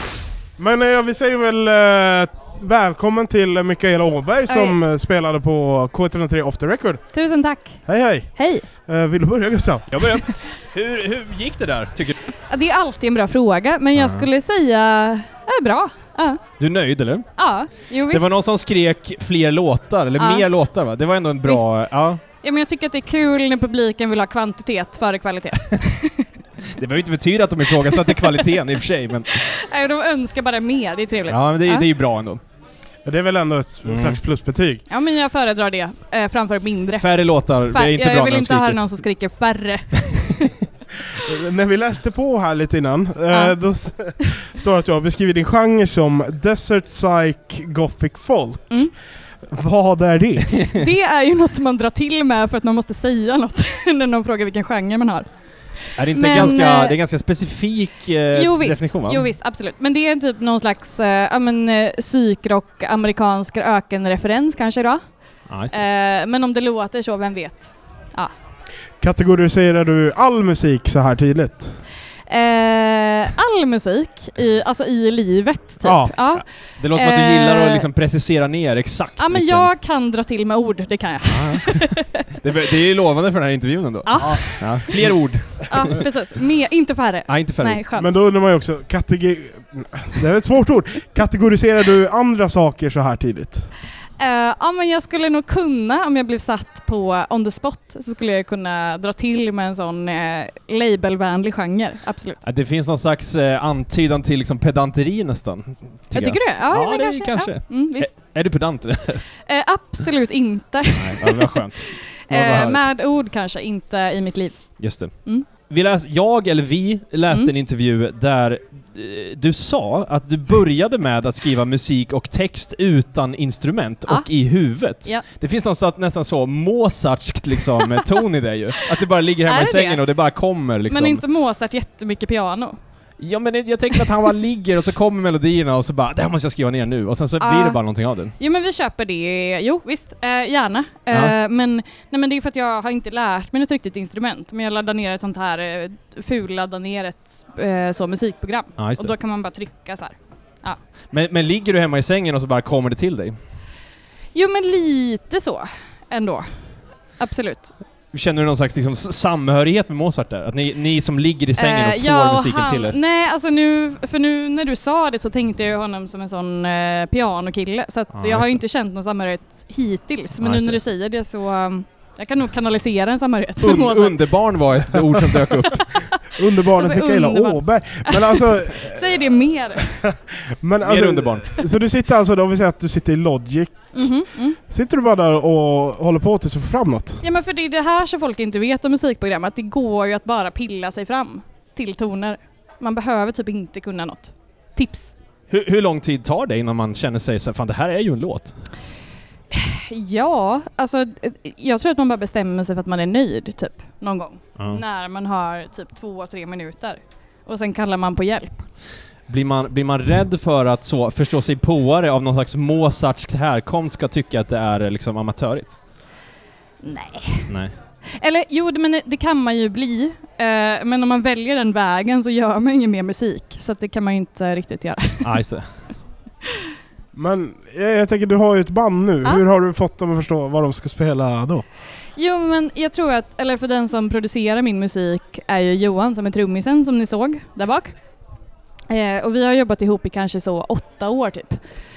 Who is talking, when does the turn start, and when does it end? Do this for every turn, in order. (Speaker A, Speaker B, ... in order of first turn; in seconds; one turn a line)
Speaker A: 0.6-7.0
Speaker B: 4.5-4.8
Speaker B: 7.1-7.8
Speaker A: 7.8-9.9
Speaker B: 8.3-8.7
Speaker C: 9.9-12.2
Speaker B: 12.4-16.4
Speaker C: 13.9-14.2
Speaker C: 16.6-22.2
Speaker B: 17.3-18.3
Speaker B: 20.2-20.5
Speaker B: 21.4-21.7
Speaker B: 22.2-26.3
Speaker C: 26.7-29.3
Speaker B: 27.8-28.4
Speaker B: 29.3-31.9
Speaker C: 31.3-32.4
Speaker A: 33.0-34.8
Speaker C: 33.8-34.2
Speaker B: 34.9-40.5
Speaker C: 37.0-38.8
Speaker A: 41.2-48.9
Speaker B: 43.3-44.1
Speaker A: 49.4-50.6
Speaker C: 50.5-50.8
Speaker B: 50.7-57.0
Speaker C: 56.0-59.3
Speaker B: 58.3-68.3
Speaker C: 65.5-65.8
Speaker A: 69.0-71.8
Speaker B: 72.3-77.8
Speaker A: 75.8-76.1
Speaker C: 76.3-79.7
Speaker B: 79.2-82.2
Speaker C: 81.3-86.0
Speaker B: 84.0-85.0
Speaker B: 85.7-88.1
Speaker C: 87.3-87.8
Speaker A: 87.9-93.7
Speaker B: 94.2-102.4
Speaker C: 102.4-109.3
Speaker B: 106.1-108.3
Speaker B: 109.4-115.5
Speaker C: 110.9-112.8
Speaker C: 114.8-131.2
Speaker B: 124.0-125.2
Speaker B: 129.4-130.1
Speaker B: 130.9-132.8
Speaker C: 133.2-138.3
Speaker B: 137.4-150.8
Speaker C: 148.8-149.1
Speaker C: 151.1-153.3
Speaker B: 154.3-157.7
Speaker C: 158.1-163.0
Speaker B: 161.6-174.9
Speaker C: 168.1-168.6
Speaker C: 170.4-170.8
Speaker C: 173.6-176.3
Speaker B: 175.7-176.2
Speaker A: 176.3-179.3
Speaker B: 176.8-179.9
Speaker A: 180.6-187.2
Speaker C: 180.8-181.6
Speaker B: 183.9-184.6
Speaker B: 187.2-195.1
Speaker C: 195.5-198.7
Speaker B: 199.5-208.7
Speaker C: 209.3-215.8
Speaker B: 216.8-217.5
Speaker C: 217.5-217.7
Speaker B: 218.1-225.4
Speaker C: 225.2-226.0
Speaker A: 227.1-231.6
Speaker B: 232.1-238.0
Speaker B: 238.9-241.7